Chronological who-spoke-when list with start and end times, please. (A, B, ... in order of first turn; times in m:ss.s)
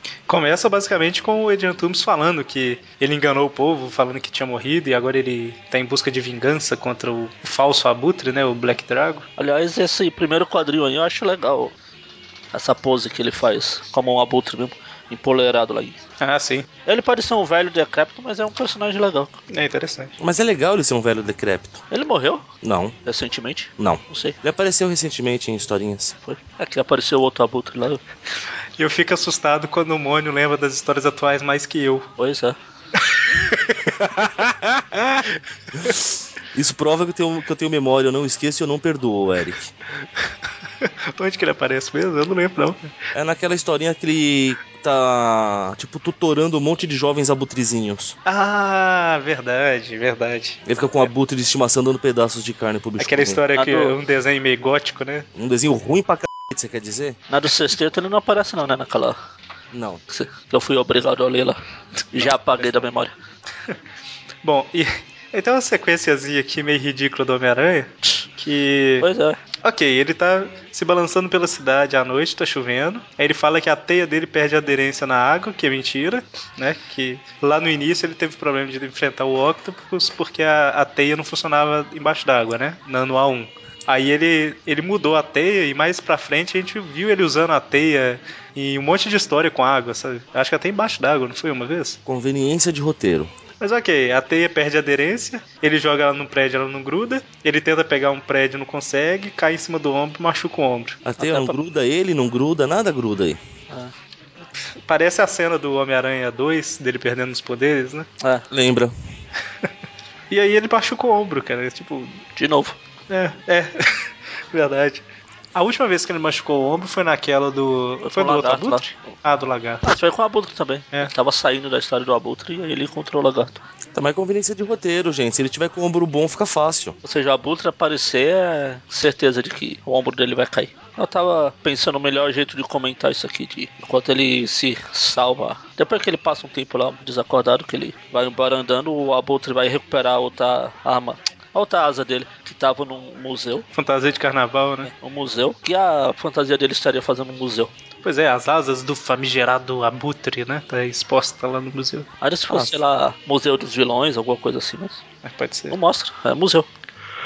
0:00.3-0:09.3 A
0:09.4-0:11.7 B
0:12.5-0:16.0 B
0:16.2-0:16.7 A
0:16.9-0:19.4 B
0:19.5-0:20.1 A
0:20.2-0:21.8 C
0:21.9-0:22.5 B
0:22.6-0:23.0 C
0:23.0-0:24.4 B
0:23.8-0:26.2 C
0:26.2-0:28.0 B
0:28.8-0:32.1 A
0:32.2-0:32.6 B
0:33.1-0:33.8 A
0:34.0-0:35.2 C
0:35.7-0:39.7 C
0:40.8-0:42.9 A
0:43.1-0:48.2 C
0:48.2-0:50.6 A
0:50.7-0:53.4 C
0:53.0-0:55.3 A
0:53.6-0:54.0 B
0:55.4-0:57.2 C
0:57.3-0:59.2 B
0:59.7-1:00.0 C
1:00.1-1:01.6 B
1:02.1-1:03.1 B
1:04.4-1:09.1 A
1:09.0-1:09.4 B
1:09.6-1:32.0 A
1:32.1-1:33.3 C
1:33.6-1:41.0 A
1:41.0-1:43.4 C
1:41.2-1:41.6 B
1:44.9-1:48.1 A
1:48.2-1:48.5 B
1:48.5-1:48.9 C
1:50.3-1:52.2 A
1:52.4-1:52.8 B
1:53.1-1:55.0 A
1:55.6-1:59.9 A
1:58.0-1:59.2 B
1:59.8-2:03.6 B
2:03.9-2:07.0 C
2:07.0-2:23.6 B
2:23.7-2:24.9 A
2:24.8-2:27.7 B
2:28.0-2:32.1 A
2:32.2-2:35.0 B
2:32.5-2:32.8 C
2:35.2-2:35.8 A
2:35.7-2:36.7 B